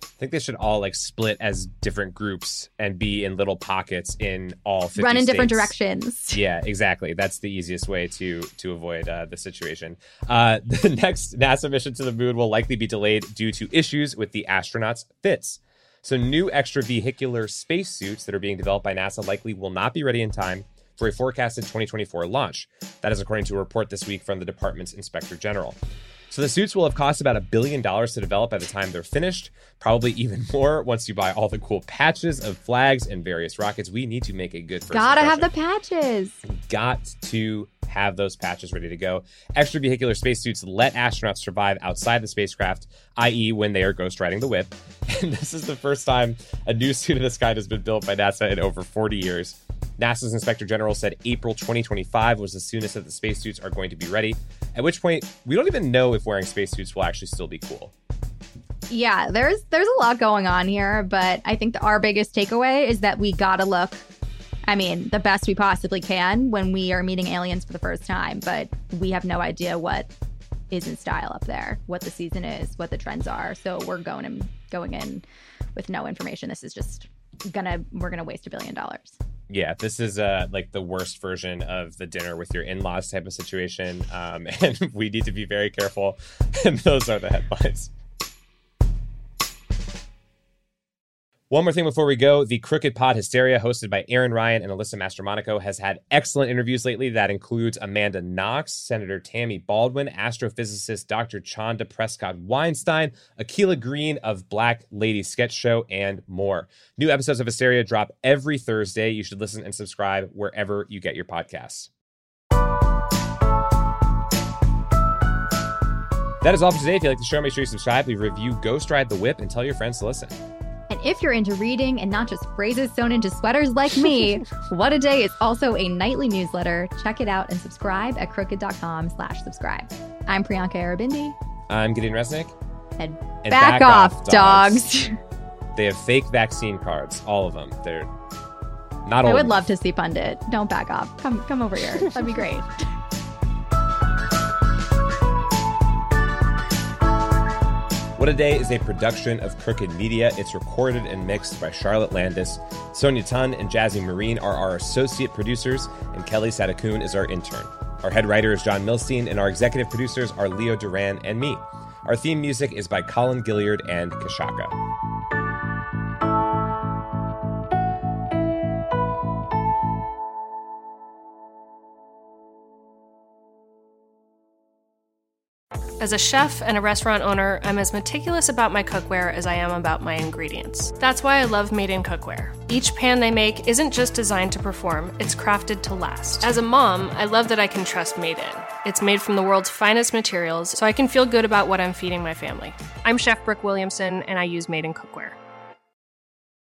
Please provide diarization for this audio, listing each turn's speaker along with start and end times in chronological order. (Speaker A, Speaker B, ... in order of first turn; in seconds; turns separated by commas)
Speaker A: 0.2-5.8, Speaker B: 5.0-6.4, Speaker A: 6.3-25.8, Speaker A: 26.3-35.5, Speaker B: 34.9-36.4, Speaker A: 36.5-57.9, Speaker B: 58.9-64.0, Speaker B: 64.7-70.1, Speaker B: 70.7-79.2, Speaker A: 79.5-87.9, Speaker A: 91.5-111.9, Speaker A: 116.4-120.4, Speaker B: 120.9-131.4, Speaker A: 131.7-132.5, Speaker B: 133.0-135.2, Speaker A: 133.4-134.8, Speaker A: 135.7-138.1, Speaker A: 139.0-139.6, Speaker B: 139.2-142.7, Speaker A: 148.2-164.8, Speaker C: 176.0-195.4